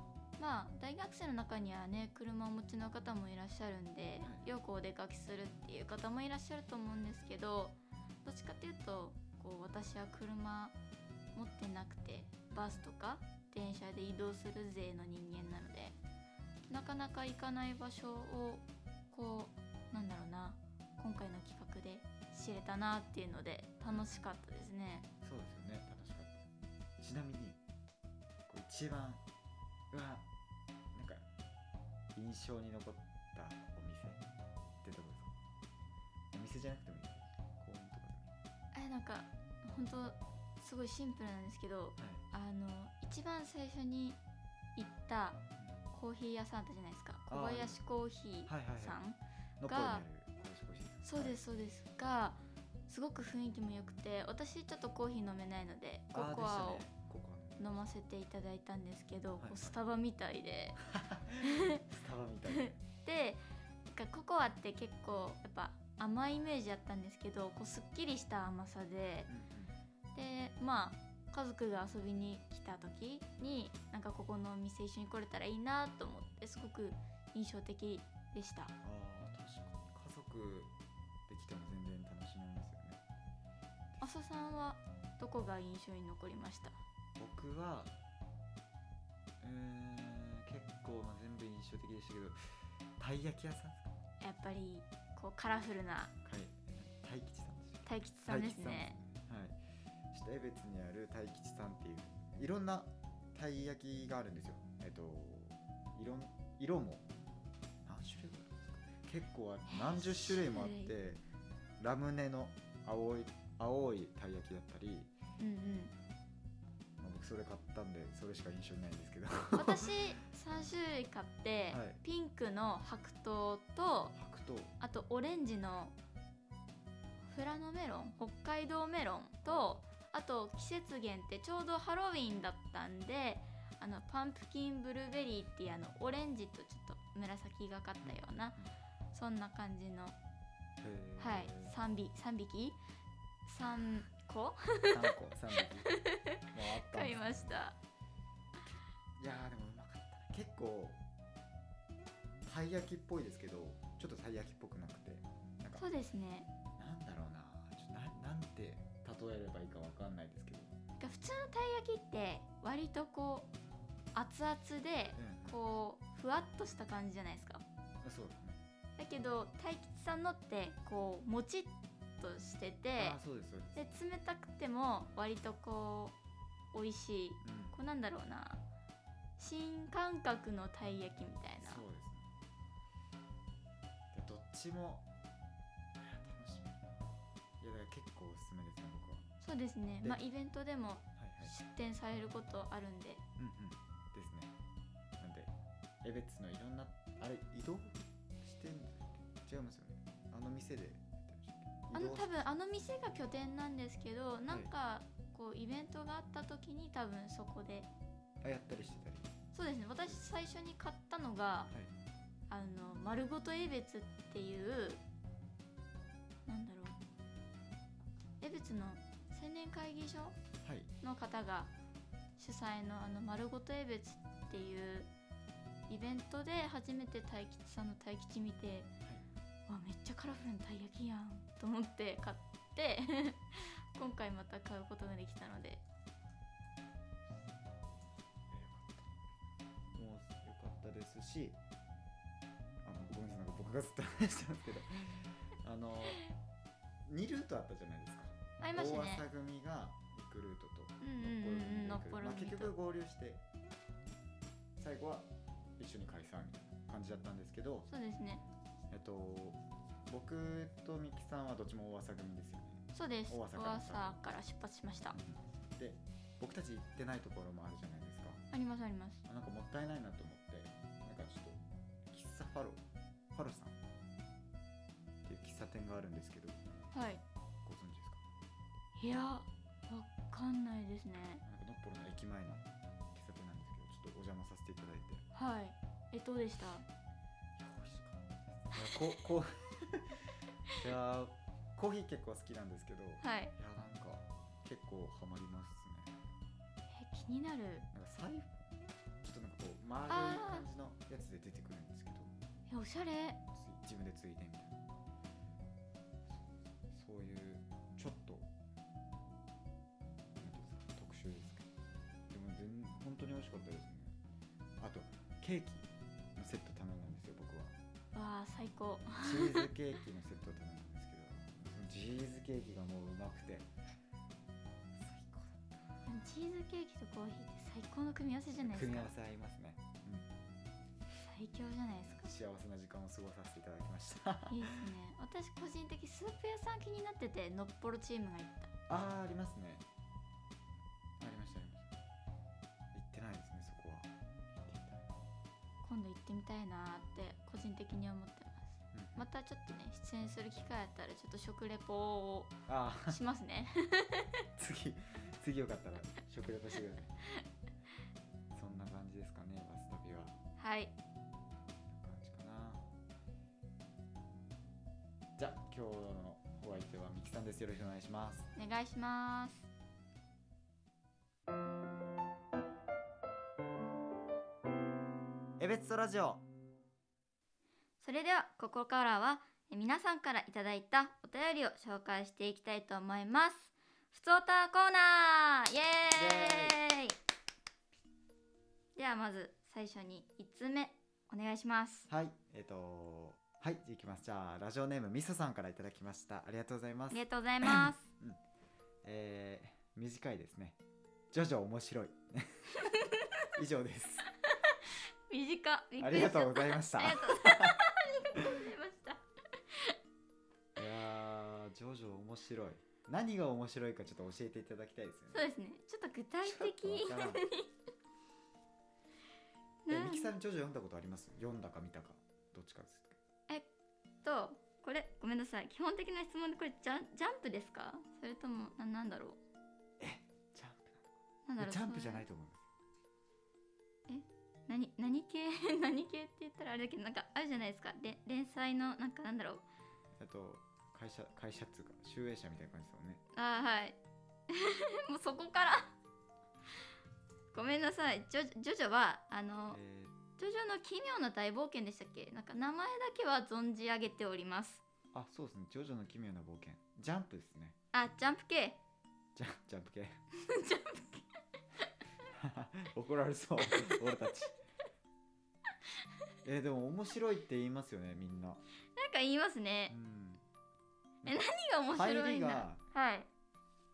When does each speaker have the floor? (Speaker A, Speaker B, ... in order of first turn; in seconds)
Speaker A: 0.4-10.8, 11.3-15.9, 16.7-25.1, 38.7-44.2, 44.8-50.0, 51.0-56.9, 57.6-60.8, 61.4-61.8, 62.5-69.3, 70.1-78.7, 84.0-86.8, 94.2-96.1, 97.8-99.0, 109.7-110.9, 115.4-115.9, 119.5-124.1, 124.8-125.9, 127.2-138.6, 139.1-140.2, 141.2-142.8, 143.4-147.8, 155.8-156.5, 161.0-163.5, 164.1-167.6, 169.0-173.2, 173.8-176.2, 176.7-178.6, 179.4-181.8, 189.4-193.2, 201.9-207.9, 209.5-211.7, 212.5-215.0, 216.4-217.0, 218.4-220.3, 221.0-221.7, 222.4-225.1, 225.9-228.9, 229.7-235.8, 248.6-249.2, 251.0-252.7, 257.9-258.4, 262.9-265.2, 268.5-269.2, 276.9-277.2, 278.9-281.4, 285.3-286.9, 293.2-293.5, 296.9-297.9, 300.1-300.6, 302.7-303.4, 318.1-319.7, 326.1-329.1, 331.2-332.3, 334.5-338.7, 345.8-352.6, 353.1-354.3, 360.6-360.9, 368.6-369.7, 378.0-387.1, 388.9-392.1, 397.1-398.1, 402.8-403.3, 404.5-409.9, 415.3-417.7, 419.9-420.3, 424.2-429.4, 431.4-432.2, 434.1-439.6, 443.3-444.0, 444.5-445.9, 447.5-449.8, 450.4-454.8, 457.9-458.8, 460.3-461.2, 463.7-464.0, 468.9-469.9, 471.2-473.3
Speaker B: 4.2-4.5, 12.5-12.8, 23.9-24.2, 25.2-27.6, 28.5-29.2, 29.9-30.2, 30.9-31.2, 32.1-34.2, 34.8-35.3, 36.3-38.3, 42.0-42.2, 45.6-45.8, 47.3-47.8, 48.5-49.0, 49.6-51.4, 56.1-57.8, 59.4-59.8, 60.8-62.8, 69.3-69.7, 78.8-80.7, 81.3-83.0, 87.2-87.9, 89.4-93.9, 96.2-99.6, 100.1-107.0, 107.8-111.2, 111.8-115.1, 117.0-120.0, 121.7-122.0, 124.1-124.7, 129.4-129.8, 138.0-138.7, 140.8-141.7, 144.9-145.9, 146.5-147.6, 149.2-151.0, 152.4-155.8, 156.8-160.7, 165.2-165.6, 168.0-168.6, 173.0-173.8, 177.4-177.7, 181.6-182.3, 184.1-185.1, 185.9-187.0, 187.6-189.2, 191.2-191.6, 193.4-194.5, 195.2-195.5, 196.0-202.4, 208.4-209.3, 210.0-210.3, 220.6-220.9, 238.5-239.1, 239.9-241.6, 242.8-246.2, 247.0-253.4, 254.8-257.9, 258.9-264.2, 265.1-268.4, 269.2-272.8, 273.3-273.8, 275.2-276.6, 277.6-278.2, 281.4-285.2, 287.6-296.1, 297.9-302.3, 303.5-304.8, 306.3-308.5, 310.4-311.7, 312.3-314.2, 314.8-317.7, 319.2-323.7, 324.9-325.8, 328.5-330.3, 332.1-334.8, 338.9-339.8, 341.2-341.9, 342.9-345.1, 348.9-349.3, 352.7-353.2, 354.6-357.1, 358.5-360.4, 361.9-362.9, 365.4-368.5, 375.6-376.4, 386.1-386.8, 392.1-398.4, 399.0-400.8, 401.3-402.9, 403.5-404.3, 406.0-407.8, 410.8-415.5, 416.4-417.4, 419.9-423.2, 430.0-432.7, 440.1-443.2, 449.7-450.2, 455.1-457.8, 459.4-460.2, 462.3-464.6, 466.4-468.6, 469.9-470.4, 471.2-472.8